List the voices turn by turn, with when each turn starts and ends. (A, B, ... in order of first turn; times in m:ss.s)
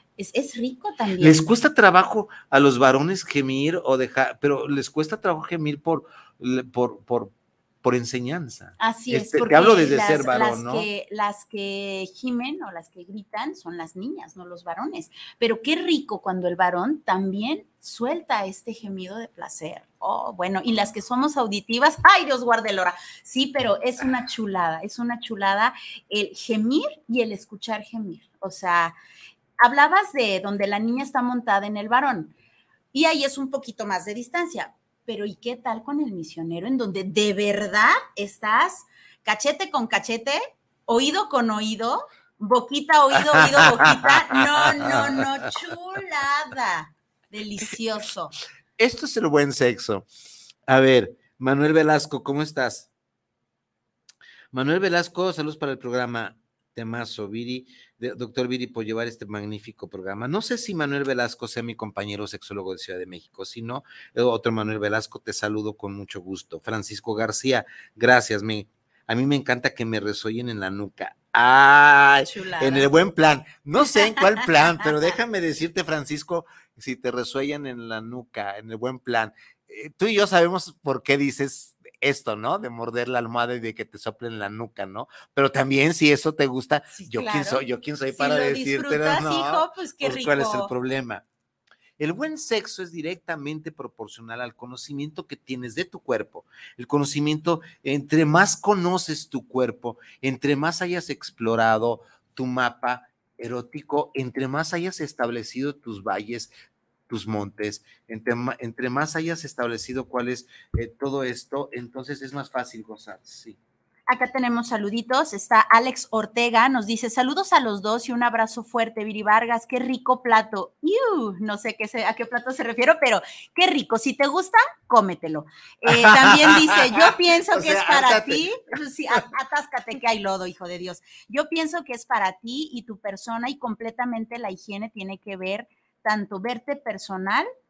0:00.2-0:01.5 A
0:01.2-0:10.9 B
0:08.8-0:29.0 A
0:29.6-0:32.3 A
0:32.9-0:48.3 A
0:43.1-0:45.3 B
0:48.8-0:50.1 B
0:50.7-0:52.9 B
0:54.5-1:31.2 B
1:12.2-1:12.9 A
1:26.9-1:30.7 A
1:32.0-1:46.5 B
1:47.1-1:53.6 B
1:54.1-2:17.5 A
2:05.9-2:08.4 B